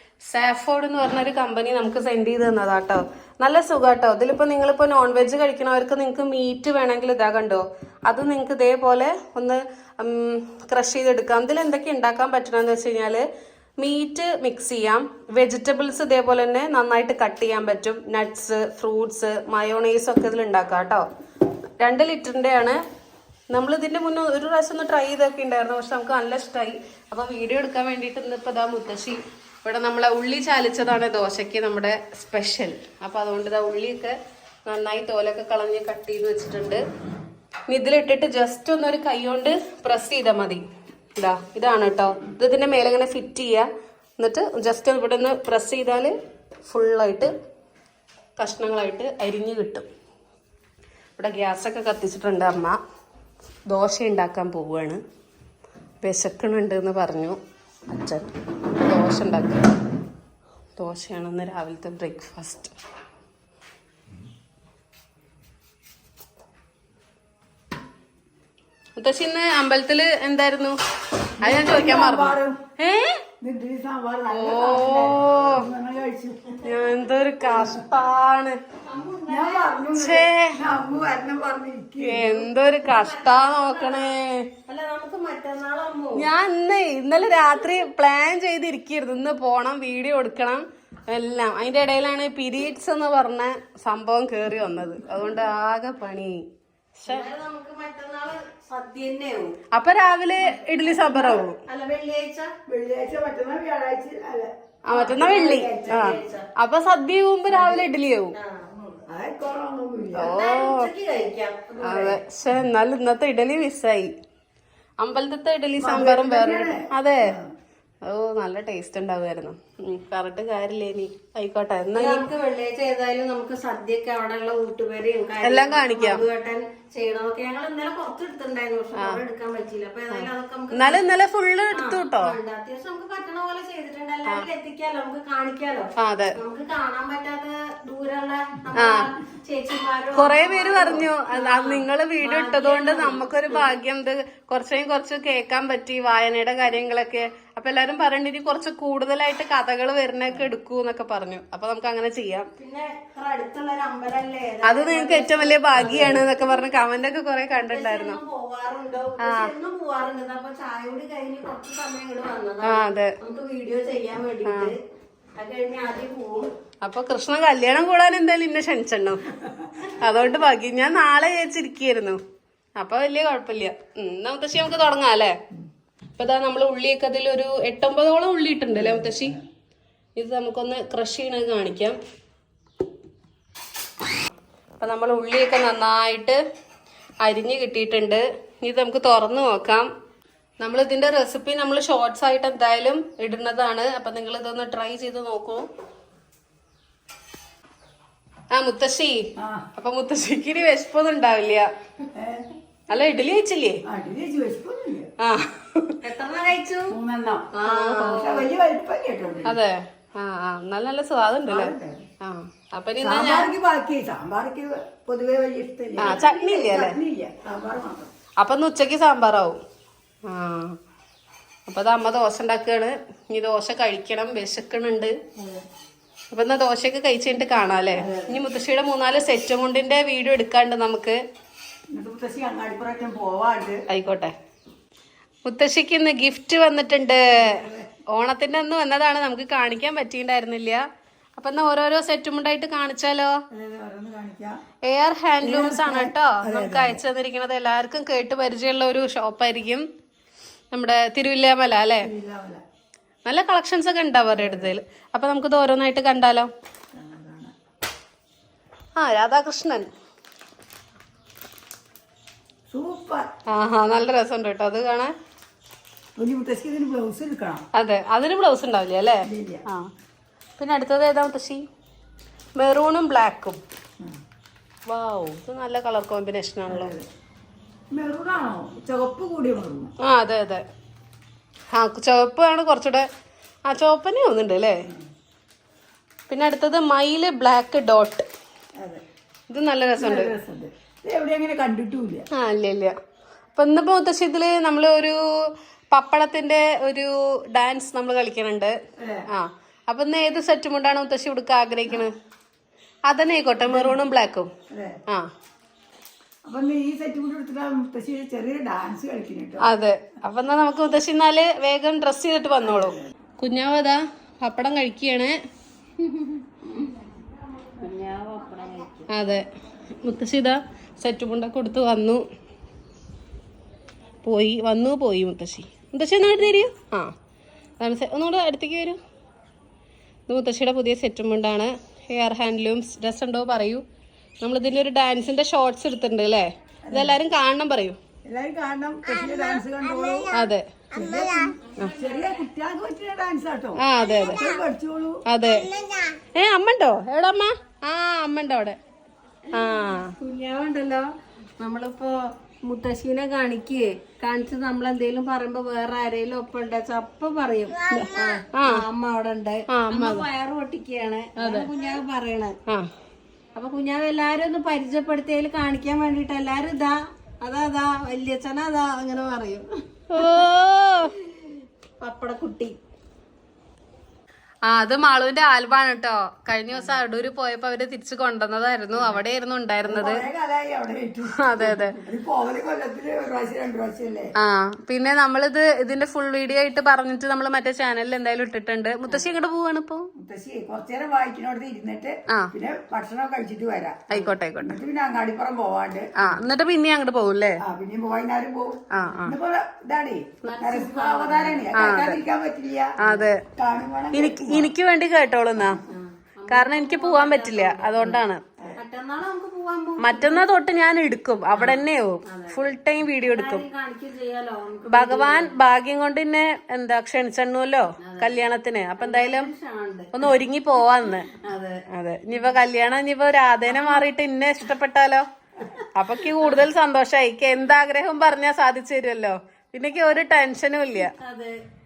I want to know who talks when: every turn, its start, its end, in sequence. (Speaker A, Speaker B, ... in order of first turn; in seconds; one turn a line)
Speaker A: 0.3-13.2
Speaker A: 13.8-21.1
Speaker A: 21.8-22.8
Speaker A: 23.5-36.8
Speaker A: 37.7-40.6
Speaker A: 41.2-43.7
Speaker A: 44.2-46.1
Speaker A: 46.6-47.3
Speaker A: 48.4-49.9
Speaker A: 51.2-52.8
Speaker A: 53.7-55.0
Speaker A: 56.0-59.6
Speaker A: 60.8-62.7
Speaker A: 69.0-70.8
Speaker A: 71.4-73.2
Speaker B: 71.4-72.6
Speaker B: 73.4-76.4
Speaker A: 74.3-75.7
Speaker A: 76.6-78.6
Speaker B: 77.5-77.8
Speaker C: 78.9-79.9
Speaker B: 79.3-82.5
Speaker A: 79.9-80.5
Speaker A: 82.0-84.5
Speaker C: 82.8-84.1
Speaker C: 84.7-86.3
Speaker A: 86.2-96.4
Speaker A: 97.0-97.2
Speaker C: 97.0-99.5
Speaker A: 99.7-101.6
Speaker C: 100.6-102.5
Speaker B: 102.7-104.5
Speaker A: 104.8-108.3
Speaker C: 104.9-106.5
Speaker C: 107.5-107.8
Speaker C: 108.3-109.0
Speaker B: 109.1-110.3
Speaker A: 110.2-110.9
Speaker C: 110.2-112.2
Speaker A: 111.8-114.1
Speaker A: 115.0-117.4
Speaker B: 115.8-116.9
Speaker A: 118.0-122.3
Speaker C: 121.9-131.1
Speaker A: 125.4-126.2
Speaker A: 130.1-132.3
Speaker C: 131.7-143.8
Speaker A: 136.0-136.4
Speaker A: 138.8-139.1
Speaker A: 140.1-152.5
Speaker C: 152.6-156.3
Speaker A: 154.6-158.2
Speaker C: 157.6-164.8
Speaker A: 159.2-159.5
Speaker A: 162.6-163.1
Speaker A: 164.4-164.7
Speaker C: 165.3-166.5
Speaker A: 166.8-169.3
Speaker A: 169.9-172.2
Speaker A: 172.8-175.3
Speaker A: 176.2-179.4
Speaker B: 178.8-179.3
Speaker A: 180.2-182.0
Speaker A: 184.8-186.4
Speaker A: 187.2-189.9
Speaker A: 190.6-195.7
Speaker A: 198.5-199.2
Speaker B: 199.4-199.7
Speaker A: 199.8-201.7
Speaker B: 202.1-202.4
Speaker A: 202.9-203.8
Speaker B: 203.8-205.1
Speaker A: 205.2-206.0
Speaker C: 206.0-206.9
Speaker B: 206.9-207.5
Speaker C: 207.5-208.5
Speaker A: 207.6-208.3
Speaker B: 208.1-209.6
Speaker A: 209.4-213.5
Speaker B: 211.5-212.0
Speaker B: 213.0-218.1
Speaker A: 216.0-216.9
Speaker A: 218.4-219.6
Speaker A: 220.2-220.8
Speaker A: 221.7-225.1
Speaker A: 226.3-231.2
Speaker B: 228.0-228.4
Speaker B: 231.9-233.8
Speaker A: 233.9-234.3
Speaker A: 235.4-240.8
Speaker B: 237.3-237.9
Speaker A: 241.4-243.3
Speaker B: 243.5-244.6
Speaker A: 244.9-249.8
Speaker B: 245.4-247.0
Speaker A: 250.7-252.1
Speaker B: 252.0-252.6
Speaker A: 253.2-256.5
Speaker B: 254.3-254.7
Speaker B: 256.9-257.5
Speaker A: 259.0-259.9
Speaker B: 262.7-263.3
Speaker A: 263.5-265.1
Speaker B: 266.2-267.6
Speaker A: 267.8-269.9
Speaker B: 269.2-269.6
Speaker A: 270.6-271.6
Speaker A: 272.6-273.6
Speaker A: 274.9-276.9
Speaker B: 276.6-277.1
Speaker B: 277.9-279.9
Speaker A: 280.0-280.6
Speaker A: 281.7-283.1
Speaker A: 283.7-284.8
Speaker A: 286.3-288.2
Speaker A: 289.5-290.3
Speaker B: 290.0-292.2
Speaker A: 292.3-292.9
Speaker A: 293.5-295.2
Speaker A: 295.9-298.7
Speaker B: 299.0-299.2
Speaker A: 299.3-302.1
Speaker A: 303.1-304.5
Speaker B: 303.6-304.0
Speaker B: 304.7-304.9
Speaker B: 306.5-309.6
Speaker A: 309.6-315.4
Speaker B: 312.7-313.1
Speaker C: 316.1-316.9
Speaker C: 317.8-319.1
Speaker A: 319.1-319.4
Speaker A: 320.0-322.2
Speaker A: 324.2-327.1
Speaker A: 327.8-329.0
Speaker A: 330.3-333.8
Speaker A: 334.4-338.0
Speaker B: 336.9-337.2
Speaker B: 338.2-340.4
Speaker A: 340.3-340.6
Speaker B: 340.9-345.2
Speaker A: 343.8-344.4
Speaker A: 345.3-345.7
Speaker A: 346.3-348.8
Speaker A: 349.5-350.1
Speaker C: 350.2-362.6
Speaker A: 357.9-358.8
Speaker A: 359.7-360.2
Speaker A: 361.4-361.7
Speaker C: 363.5-370.4
Speaker A: 370.1-371.1
Speaker C: 371.3-372.8
Speaker A: 374.7-380.2
Speaker C: 376.7-377.0
Speaker C: 378.9-379.2
Speaker B: 379.9-381.4
Speaker A: 381.4-381.9
Speaker C: 381.6-382.2
Speaker B: 382.1-384.3
Speaker A: 384.4-390.1
Speaker C: 389.1-389.4
Speaker B: 390.2-396.1
Speaker A: 394.1-394.8
Speaker A: 396.2-397.6
Speaker B: 397.6-402.9
Speaker A: 398.9-399.4
Speaker C: 400.4-401.7
Speaker A: 401.7-402.2
Speaker A: 403.0-403.4
Speaker C: 403.0-403.3
Speaker B: 403.6-404.7
Speaker A: 404.1-405.8
Speaker C: 405.9-408.2
Speaker A: 406.5-408.4
Speaker C: 408.8-410.4
Speaker A: 410.0-413.6
Speaker C: 411.5-415.6
Speaker A: 414.9-419.5
Speaker C: 418.0-418.4
Speaker C: 419.0-420.1
Speaker A: 420.1-421.3
Speaker C: 421.3-421.8
Speaker A: 421.9-425.2
Speaker C: 423.7-424.0
Speaker A: 425.9-431.1
Speaker C: 430.9-431.5